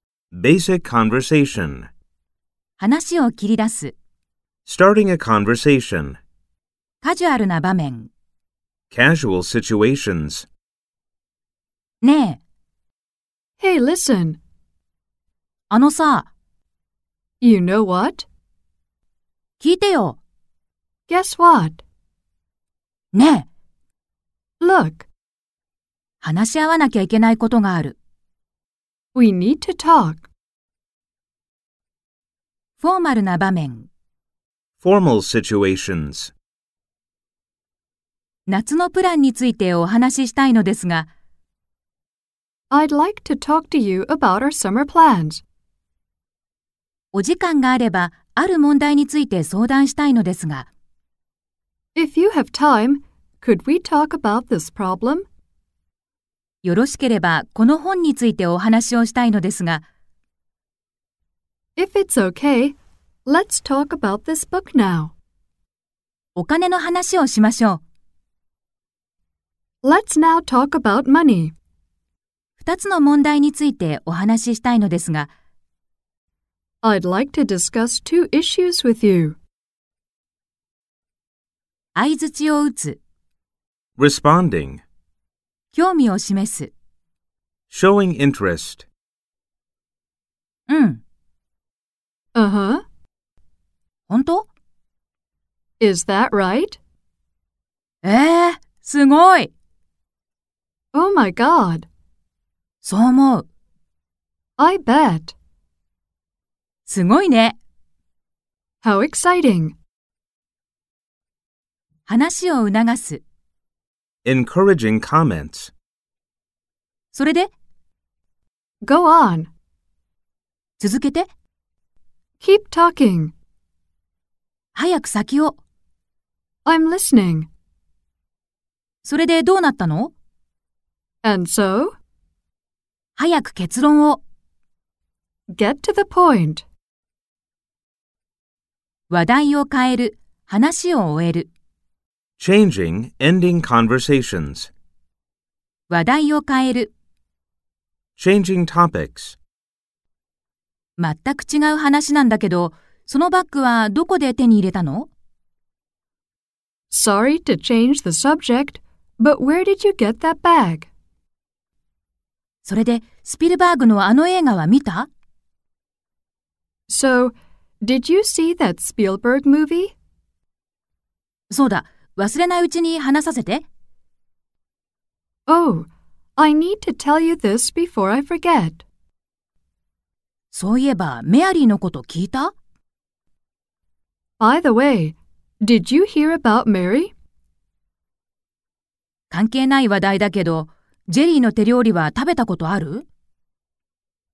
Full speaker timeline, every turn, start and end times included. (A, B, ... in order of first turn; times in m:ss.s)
0:00.3-0:01.9 A
0:02.8-0:04.0 B
0:04.6-0:06.2 A
0:07.0-0:08.1 B
0:08.9-0:10.5 A
0:12.0-0:12.4 B
0:13.6-0:14.4 C
0:15.7-0:16.3 B
0:17.4-0:18.3 C
0:19.6-0:20.2 B
0:21.1-0:21.8 C
0:23.1-0:23.5 B
0:24.6-0:25.1 C
0:26.2-0:28.0 B
0:29.2-0:30.3 C
0:32.8-0:33.9 B
0:34.8-0:36.3 A
0:38.5-0:41.1 B
0:42.7-0:45.4 C
0:47.1-0:50.7 B
0:52.0-0:55.3 C
0:56.6-0:59.8 B
1:01.8-1:05.1 C
1:06.4-1:07.8 B
1:09.8-1:11.5 C
1:12.6-1:15.3 B
1:16.8-1:19.4 C
1:22.0-1:23.0 B
1:24.0-1:24.8 A
1:25.7-1:26.7 B
1:27.7-1:28.9 A
1:30.7-1:31.0 B
1:32.4-1:32.8 C
1:34.1-1:34.5 B
1:35.8-1:36.8 C
1:38.0-1:39.5 B
1:40.9-1:41.9 C
1:42.8-1:43.5 B
1:44.6-1:45.3 C
1:46.9-1:47.6 B
1:48.8-1:49.8 C
1:52.1-1:53.2 B
1:54.2-1:55.7 A
1:57.1-1:57.5 B
1:58.8-1:59.5 C
2:00.8-2:01.3 B
2:02.4-2:03.3 C
2:04.8-2:05.6 B
2:06.6-2:07.5 C
2:09.0-2:10.1 B
2:11.2-2:12.0 C
2:13.2-2:14.2 B
2:15.5-2:16.6 C
2:19.1-2:21.5 B
2:22.4-2:24.7 A
2:25.9-2:26.9 B
2:28.2-2:29.4 A
2:31.0-2:35.1 B
2:36.9-2:40.9 C
2:42.6-2:45.1 B
2:46.9-2:49.9 C
2:51.5-2:53.6 B
2:55.5-2:58.8 C
3:00.5-3:02.5 B
3:04.4-3:07.1 C
3:09.3-3:13.0 B